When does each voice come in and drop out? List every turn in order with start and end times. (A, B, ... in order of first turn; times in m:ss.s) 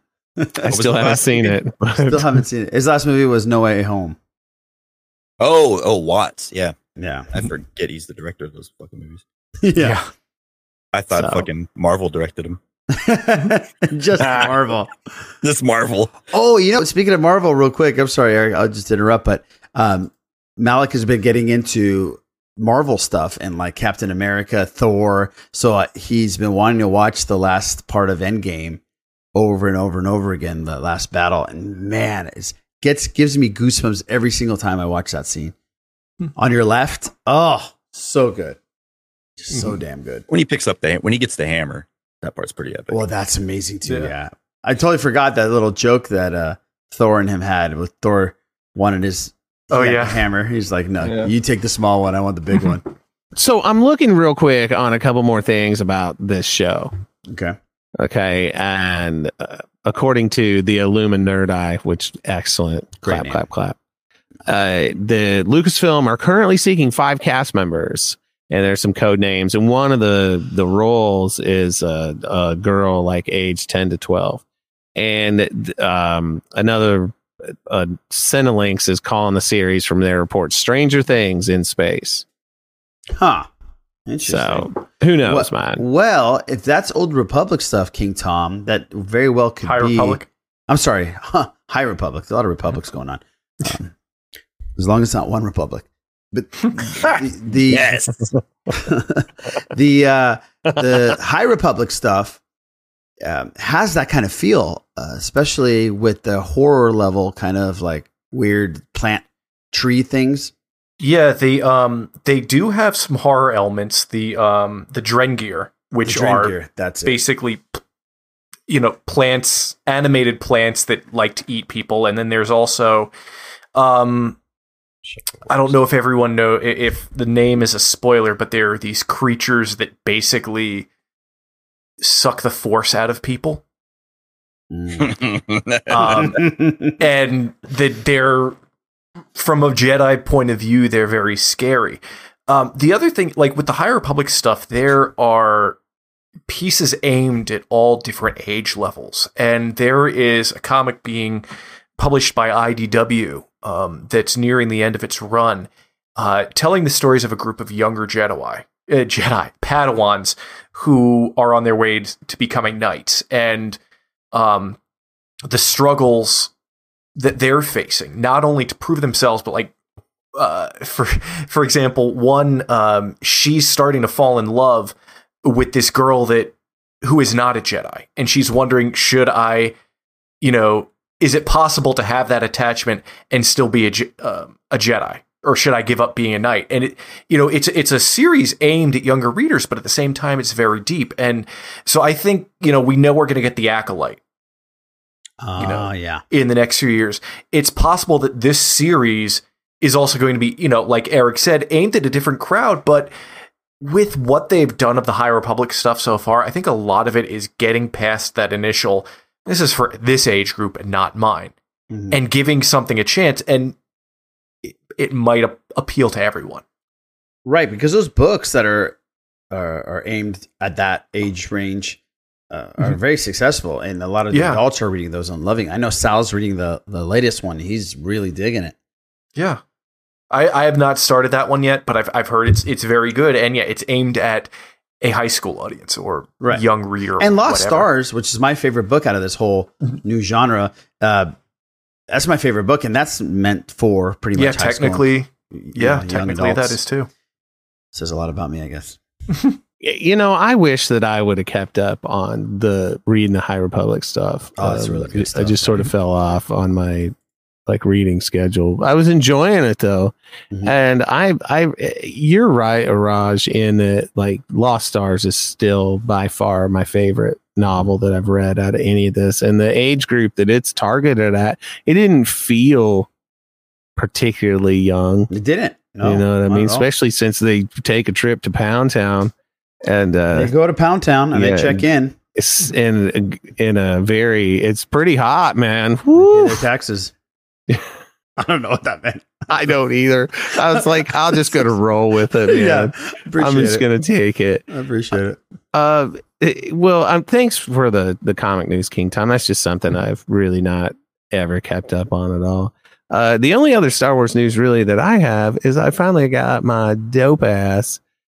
0:00.4-0:01.4 A
0:00.6-0:02.3 B
0:00.7-0:01.5 C
0:01.9-0:04.2 A
0:05.4-0:06.8 C
0:07.0-0:07.3 A
0:07.3-0:09.2 C
0:09.6-0:10.0 A
0:09.8-0:10.0 D
0:10.9-0:12.6 C
0:11.2-0:11.5 B
0:12.9-0:14.9 A
0:14.2-0:14.5 C
0:15.4-0:16.2 C
0:16.3-0:28.8 A
0:29.3-0:35.6 A
0:36.4-0:38.6 A
0:39.4-0:40.3 A
0:40.3-0:43.0 C
0:42.9-0:52.8 A
0:49.7-0:50.2 D
0:53.4-0:56.9 B
0:57.3-0:57.6 A
0:58.0-1:03.8 B
1:03.0-1:03.4 A
1:04.5-1:14.4 B
1:15.0-1:22.2 B
1:23.1-1:23.5 A
1:24.1-1:24.7 A
1:24.3-1:25.8 B
1:25.2-1:33.9 A
1:29.6-1:30.3 D
1:34.8-1:38.0 A
1:38.7-1:42.4 A
1:43.2-1:50.5 A
1:51.0-1:57.8 D
1:56.0-1:57.2 A
1:58.7-2:03.1 D
2:03.8-2:04.4 D
2:05.1-2:05.5 A
2:05.5-2:10.9 D
2:12.0-2:13.6 D
2:14.7-2:15.2 A
2:15.0-2:16.4 C
2:15.9-2:17.0 A
2:17.0-2:18.6 D
2:19.4-2:25.8 D
2:26.5-2:31.5 D
2:32.0-2:43.8 D
2:44.3-2:44.8 D
2:45.5-2:46.5 D
2:47.2-2:49.7 D
2:50.4-2:59.8 D
3:00.4-3:14.2 D
3:15.4-3:16.2 A
3:15.6-3:23.1 D
3:23.8-3:31.5 D
3:31.9-3:32.2 A
3:32.1-3:33.8 D
3:34.6-3:36.6 D
3:37.4-3:39.0 A
3:39.5-3:42.0 A
3:42.5-3:48.8 A
3:44.3-3:44.6 D
3:50.3-3:57.9 D
3:57.2-4:01.3 A
4:02.1-4:06.8 A
4:04.4-4:07.1 D
4:07.9-4:09.0 A
4:09.8-4:17.1 B
4:14.6-4:15.9 A
4:17.7-4:33.1 B
4:34.0-4:35.3 B
4:35.3-4:36.9 A
4:36.0-4:39.3 B
4:39.8-4:40.5 B
4:40.3-4:42.2 A
4:41.3-4:46.6 B
4:46.2-4:47.1 A
4:48.4-4:49.5 A
4:49.5-4:54.6 B
4:52.4-4:53.9 A
4:54.7-4:55.4 A
4:55.7-5:08.0 B